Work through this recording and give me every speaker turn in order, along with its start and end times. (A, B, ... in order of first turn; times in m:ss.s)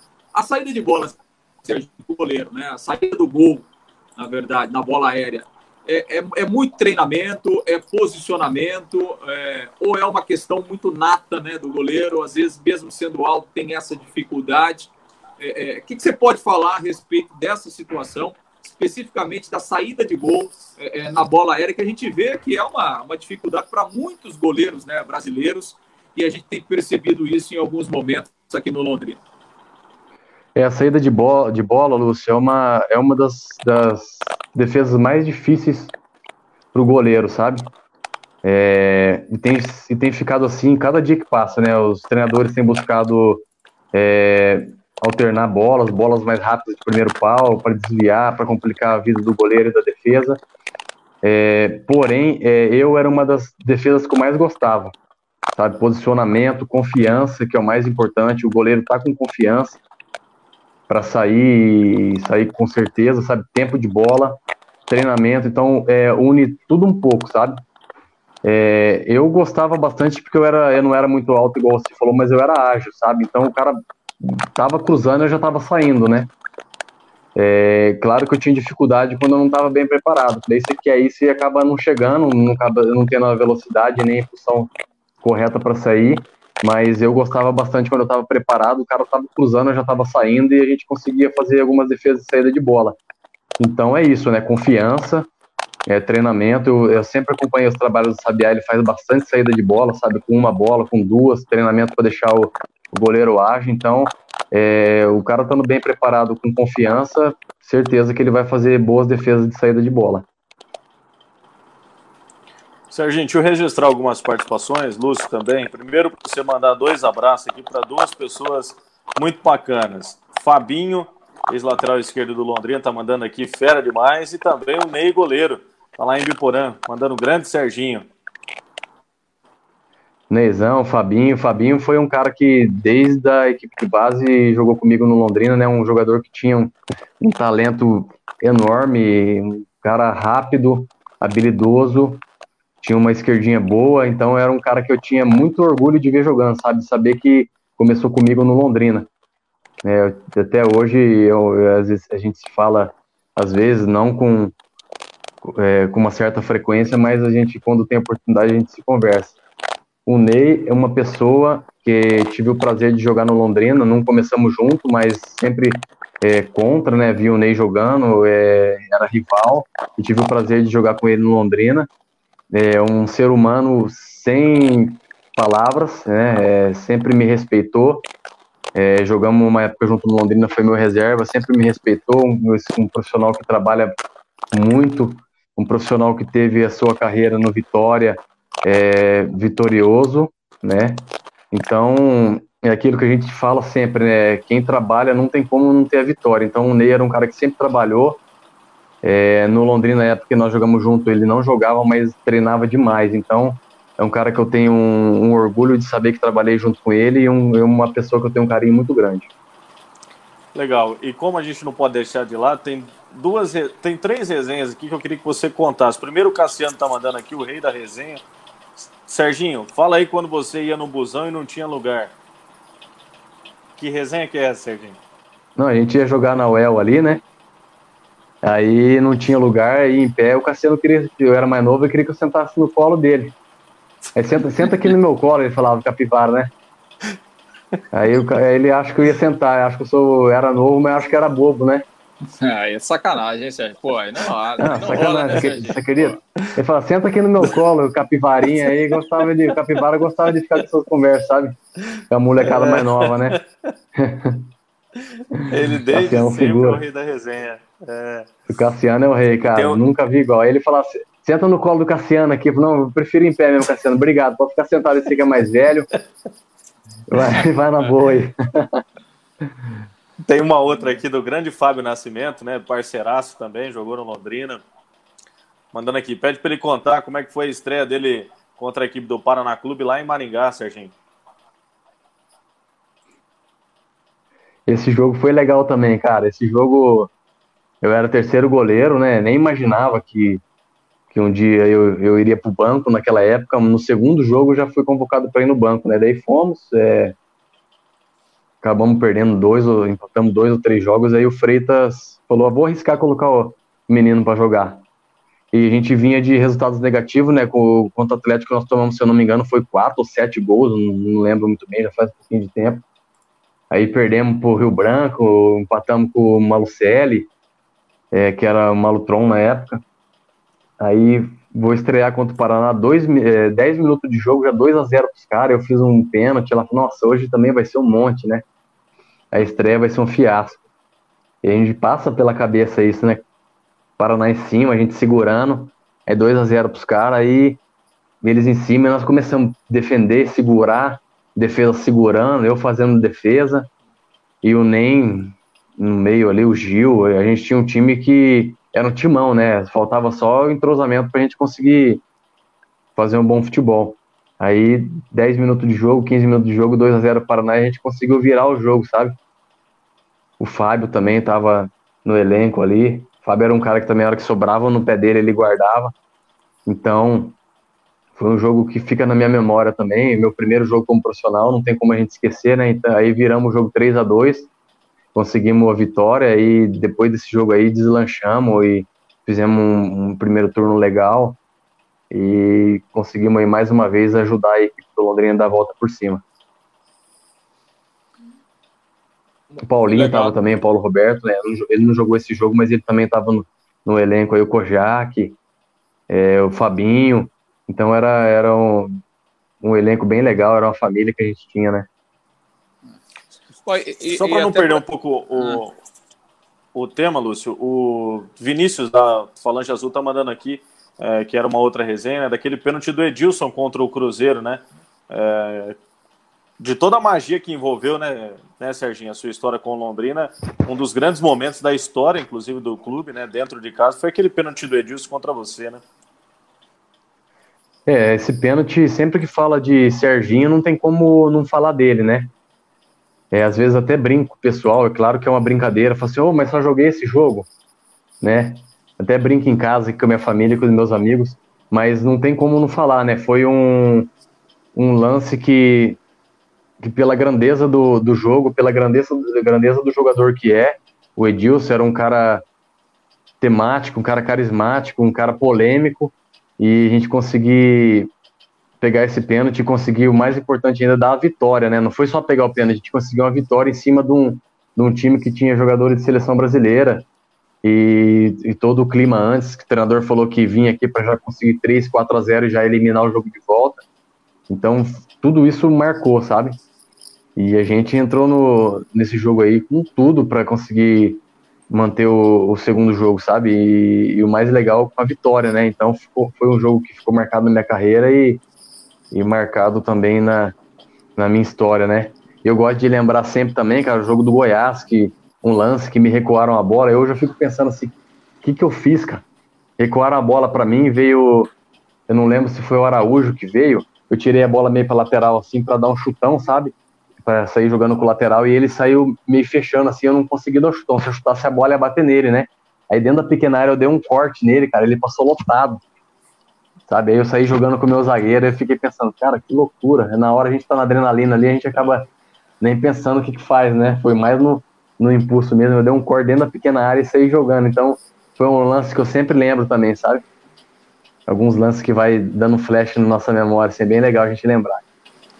0:00.3-0:29.2 A
0:30.6-0:35.9 B
0:36.7-0:37.7 B
0:38.4-0:50.4 B
0:51.2-0:54.9 B
0:55.5-0:59.8 B
1:00.9-1:04.4 B
1:04.9-1:07.6 B
1:08.4-1:16.3 B
1:17.4-1:24.7 B
1:25.2-1:33.0 B
1:33.6-1:35.3 B
1:35.9-1:50.2 B
1:52.9-2:08.1 C
2:10.3-2:22.2 B
2:22.8-2:29.1 B
2:29.8-2:34.5 B
2:35.4-2:39.4 B
2:40.1-2:51.9 B
2:52.5-2:58.1 B
2:58.7-3:03.9 B
3:04.5-3:18.2 B
3:19.0-3:29.3 B
3:30.6-3:38.2 C
3:38.8-3:42.1 C
3:43.8-3:45.0 C
3:45.6-3:47.2 B
3:48.4-3:53.3 B
3:54.2-3:56.5 B
3:57.9-4:01.8 B
4:02.4-4:06.2 A
4:04.6-4:11.5 B
4:12.1-4:13.4 B
4:12.5-4:13.4 C
4:14.0-4:14.5 B
4:15.2-4:18.3 C
4:15.4-4:16.8 B
4:18.5-4:25.9 B
4:19.6-4:19.8 C
4:27.1-4:28.8 B
4:30.3-4:34.6 C
4:35.7-4:40.9 C
4:44.7-4:47.1 B
4:47.8-4:50.4 B
4:51.1-4:57.2 B
4:58.6-5:04.8 B
5:05.5-5:12.8 B
5:13.7-5:17.3 B
5:18.1-5:19.8 B
5:20.8-5:28.4 B
5:29.3-5:30.6 B
5:31.4-5:33.2 B
5:34.0-5:37.6 B
5:38.2-5:43.7 B
5:44.4-5:52.0 B
5:53.0-5:59.1 B
6:00.4-6:05.9 B
6:06.7-6:07.4 B
6:08.2-6:14.5 B
6:15.2-6:21.4 B
6:22.1-6:26.2 B
6:29.5-6:30.4 A
6:29.6-6:35.4 B
6:36.1-6:39.0 B
6:39.6-6:41.9 B
6:43.6-6:44.8 A
6:44.1-6:45.8 C
6:46.8-6:55.8 C
6:56.6-7:05.8 C
7:07.9-7:12.3 B
7:13.3-7:17.5 B
7:18.2-7:24.1 B
7:24.8-7:26.0 B
7:26.8-7:32.4 B
7:33.4-7:38.1 B
7:38.8-7:47.1 B
7:47.6-7:53.8 B
7:54.5-7:56.6 B
7:57.4-8:08.4 B
8:09.1-8:10.5 B
8:11.2-8:19.2 B
8:19.8-8:21.5 B
8:22.1-8:35.8 B
8:36.9-8:42.1 B
8:42.6-8:50.2 B
8:51.3-8:54.8 B